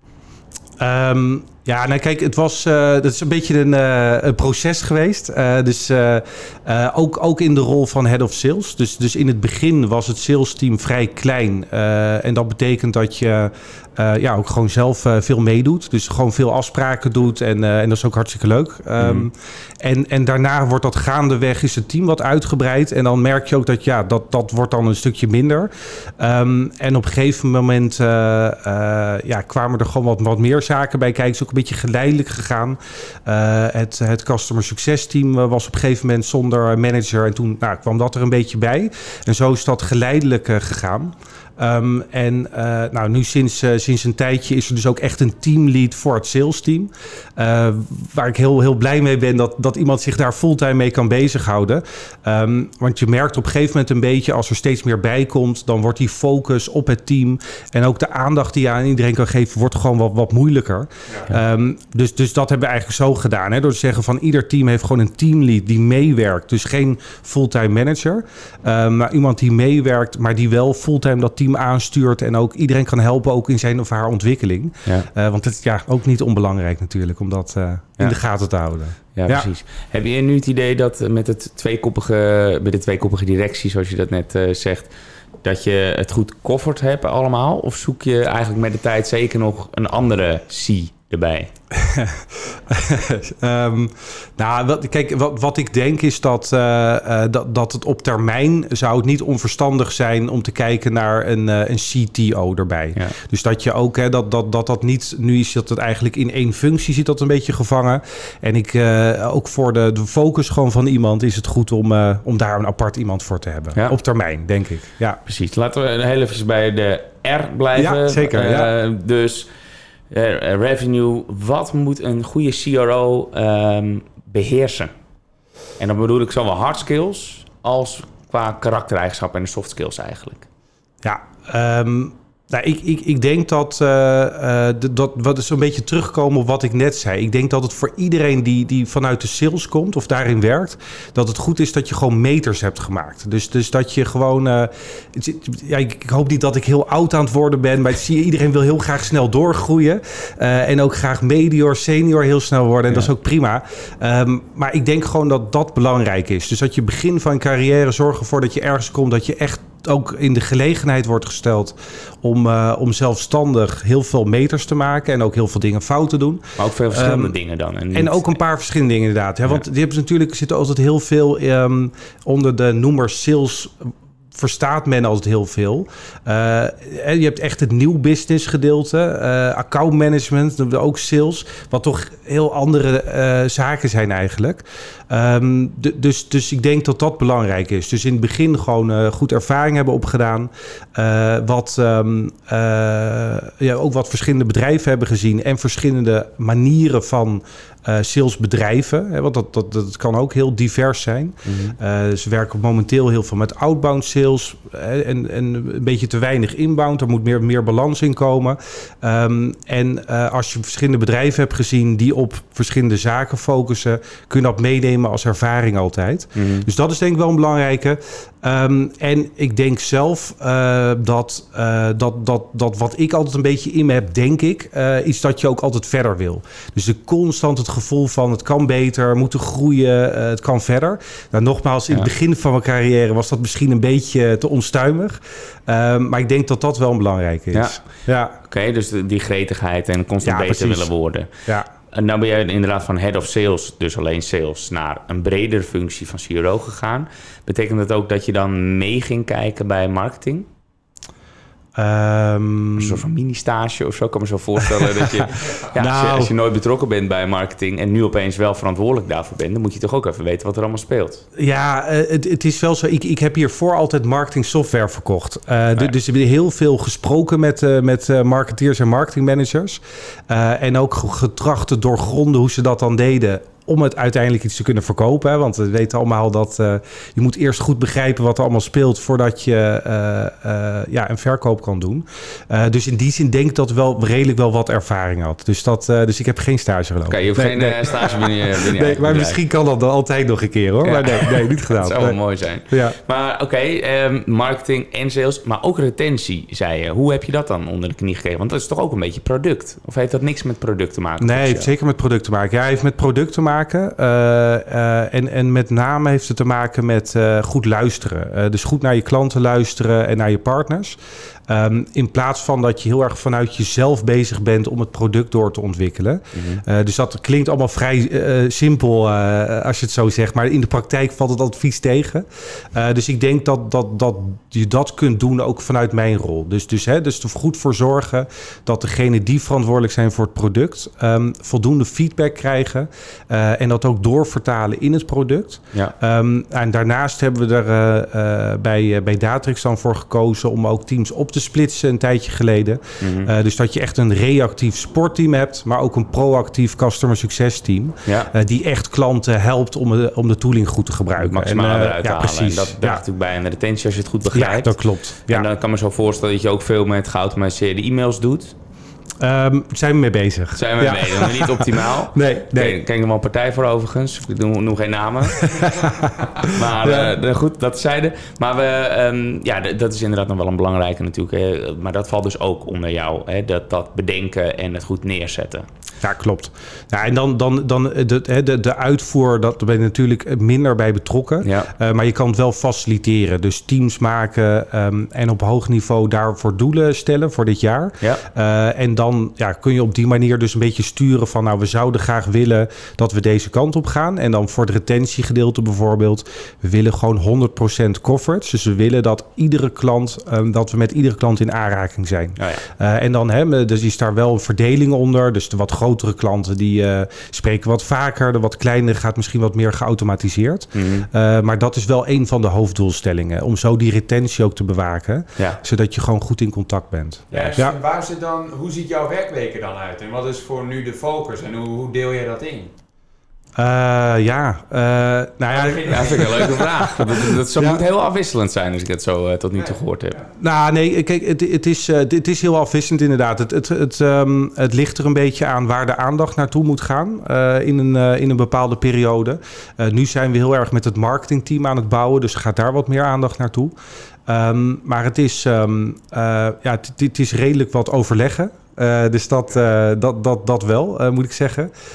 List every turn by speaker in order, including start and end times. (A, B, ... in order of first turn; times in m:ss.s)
0:00.8-1:19.5 A
0:19.0-0:19.3 B
1:19.2-1:24.9 B
1:25.4-1:31.5 B
1:31.7-1:55.2 A
1:55.3-1:59.5 B
1:57.8-1:58.7 A
2:00.1-2:04.9 B
2:05.8-2:10.5 B
2:11.0-2:47.4 A
2:46.6-2:48.4 B
2:47.9-3:58.4 A
3:21.4-3:21.8 B
3:36.4-3:36.7 B
3:57.5-3:57.8 B
3:58.4-4:01.3 B
4:00.2-4:00.9 A
4:01.9-4:10.5 B
4:11.8-4:13.0 A
4:12.8-4:21.2 B
4:14.7-4:16.3 A
4:21.4-4:52.2 A
4:47.1-4:49.4 B
4:50.8-5:01.7 B
4:52.7-4:53.0 A
5:01.2-5:53.0 A
5:16.3-5:16.6 B
5:43.0-5:43.3 B
5:48.1-5:48.3 B
5:51.2-5:58.6 B
5:54.3-5:55.5 A
5:59.2-6:02.8 A
6:00.6-6:05.7 B
6:05.4-6:07.1 A
6:06.5-6:15.7 B
6:16.0-6:57.8 A
6:21.4-6:21.7 B
6:42.4-6:42.6 B
6:50.7-6:51.1 B
6:57.3-6:57.6 B
6:57.3-7:02.7 C
7:03.6-7:07.8 A
7:05.5-7:06.8 C
7:05.8-7:10.2 B
7:10.4-7:23.7 A
7:24.3-7:31.7 A